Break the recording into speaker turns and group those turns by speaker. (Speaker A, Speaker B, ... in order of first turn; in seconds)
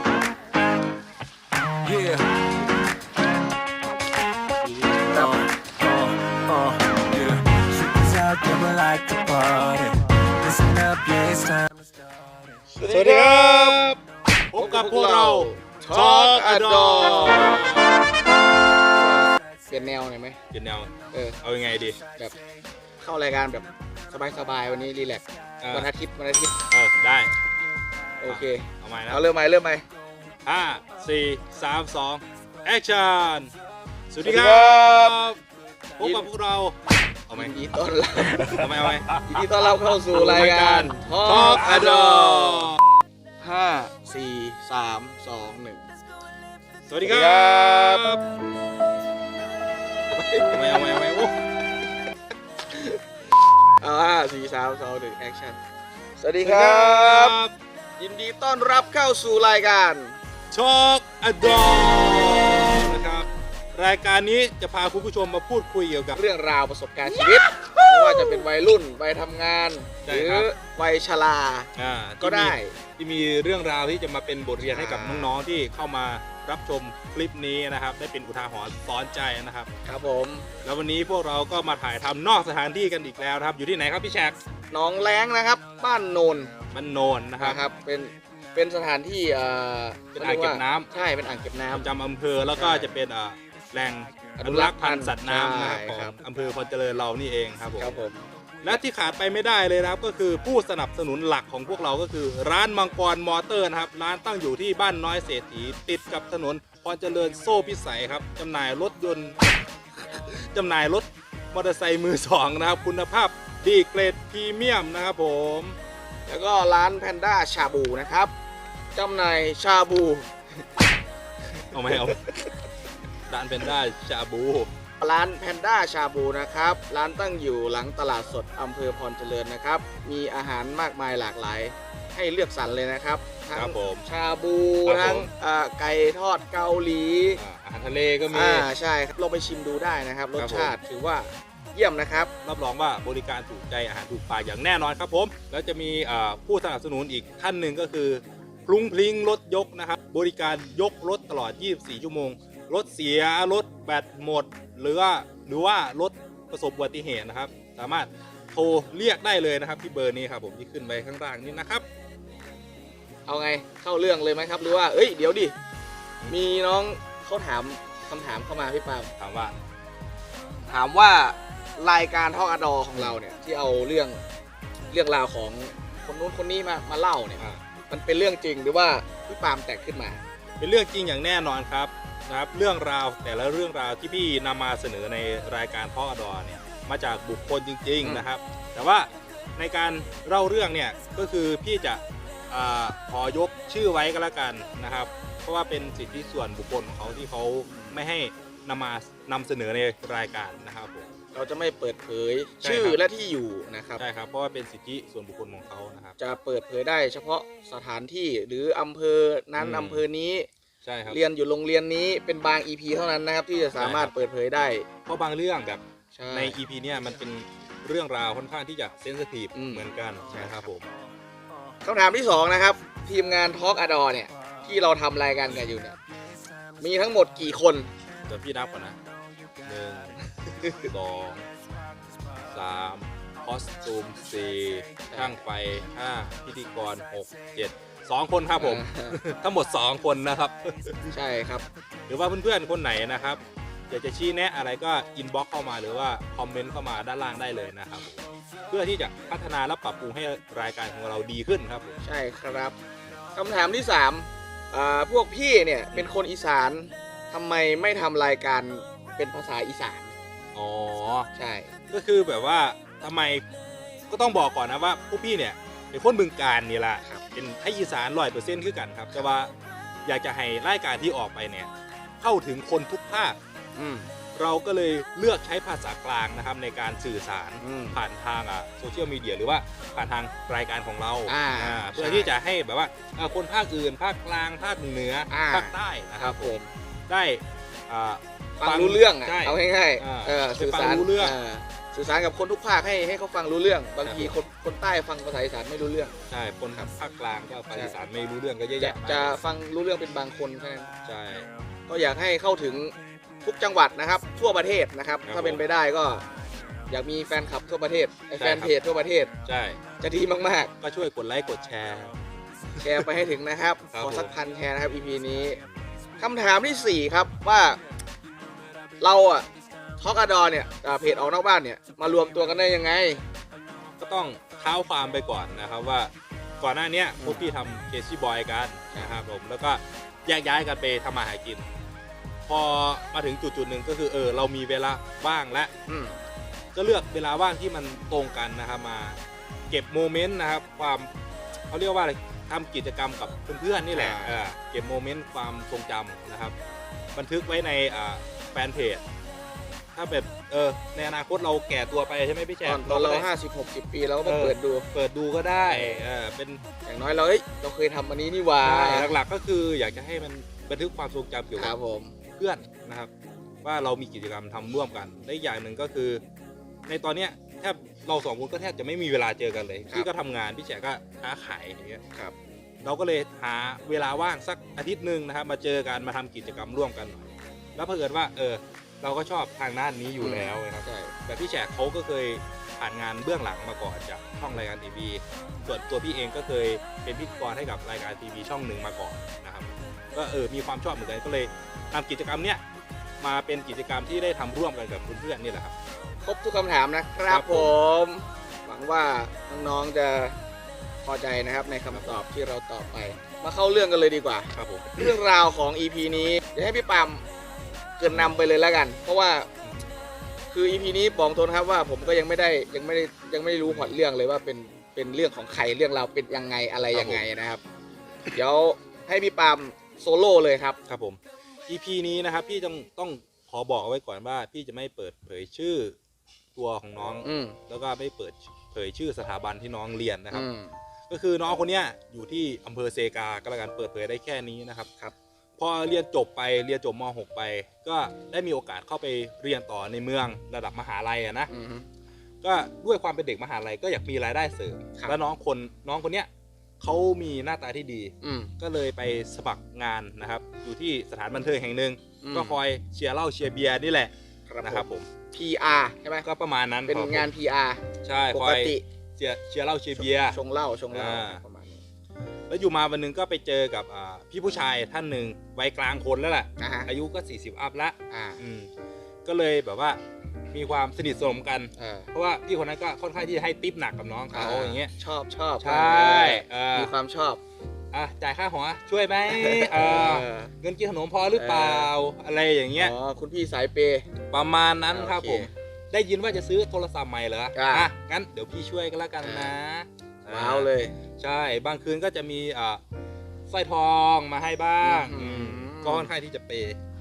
Speaker A: 1.8-2.4, 5.1-12.6
Speaker B: 4.6-5.3, 12.7-13.8, 14.6-17.8, 18.8-20.4, 21.1-21.4, 23.0-26.6, 28.2-29.9, 34.2-35.2, 36.0-36.3, 37.3-38.7, 39.2-42.7, 43.4-45.9, 47.0-48.1, 50.2-50.6, 53.8-55.6, 56.2-57.4, 58.0-60.2, 66.1-72.8, 74.6-75.3, 79.8-80.5, 84.7-86.5, 87.4-91.9, 92.6-92.9, 94.4-96.2, 97.8-98.8, 116.3-118.3, 119.0-120.3, 121.5-122.5, 125.0-137.4, 138.3-142.3, 163.3-165.6, 166.3-169.1, 170.7-174.2, 174.9-180.2, 197.7-198.0, 201.3-204.0, 206.2-210.5, 211.1-214.9, 216.2-216.6, 219.5-220.7, 221.8-226.0, 226.8-227.9, 230.6-230.9, 235.1-235.4, 238.6-239.2, 241.1-241.7, 252.0-252.8, 253.3-260.1, 261.4-261.7, 273.8-274.1, 277.6-278.0, 281.3-282.3, 285.3-286.7, 288.6-296.2, 297.7-298.0, 298.8-300.9, 301.9-306.3, 306.9-309.3, 310.0-310.7, 312.8-315.6, 316.2-317.8, 319.0-323.3, 327.2-327.5, 335.9-336.2, 343.9-344.4, 352.6-354.9, 356.9-359.2, 361.6-362.2, 380.2-381.2, 396.2-400.4, 401.0-407.3, 408.0-409.5, 410.5-417.6, 418.3-420.8, 427.2-427.6, 430.3-430.8, 441.5-441.9, 448.2-448.5, 452.2-452.6, 454.5-456.3, 456.9-458.9, 460.0-461.8, 466.6-466.9, 468.1-468.4, 471.8-472.1, 474.3-477.4, 479.3-480.5, 481.4-481.9, 482.8-484.1, 484.9-485.5, 487.5-487.9, 489.2-489.5, 490.3-490.9, 494.8-496.1
Speaker C: 12.8-17.9, 20.5-22.0, 25.6-25.9, 26.7-27.4, 28.3-29.2, 30.4-33.5, 34.1-35.4, 36.0-36.8, 37.3-37.5, 38.4-42.8, 46.9-48.2, 50.5-51.4, 56.4-57.5, 60.5-66.2, 67.0-68.5, 70.0-70.5, 71.8-79.7, 80.6-84.4, 86.7-87.6, 90.2-90.9, 91.7-98.0, 98.6-109.4, 110.1-115.8, 121.7-122.2, 123.3-124.7, 133.5-134.1, 134.9-135.3, 137.4-138.7, 140.4-140.8, 142.4-161.9, 169.2-169.6, 180.6-201.1, 202.6-203.0, 204.0-206.2, 209.6-210.0, 210.8-211.2, 213.8-214.1, 215.1-220.9, 228.3-229.0, 229.7-231.5, 232.5-241.2, 242.1-252.0, 260.5-261.3, 261.9-263.4, 264.1-269.5, 270.1-271.7, 272.2-273.4, 274.4-291.4, 294.0-294.3, 296.3-299.4, 301.1-301.5, 305.3-305.6, 308.4-308.8, 309.4-309.8, 310.8-312.2, 312.8-313.1, 313.9-314.3, 315.5-315.9, 324.0-331.7, 332.5-335.7, 336.7-339.2, 339.7-341.1, 341.7-346.6, 347.1-349.0, 349.9-353.3, 354.2-356.6, 358.6-361.8, 362.3-363.1, 363.6-366.2, 366.9-372.0, 372.8-392.6, 393.2-395.8, 397.3-397.7, 401.9-402.2, 404.5-405.1, 409.6-409.9, 413.6-414.0, 416.9-417.2, 420.9-426.0, 426.6-430.5, 431.1-434.9, 435.6-441.5, 442.4-446.3, 446.8-454.1, 454.6-455.1, 456.2-457.3, 458.0-460.4, 460.9-461.4, 462.5-468.7, 469.2-470.0, 470.5-474.9, 475.6-476.9, 477.9-482.9, 484.3-492.8, 493.5-496.8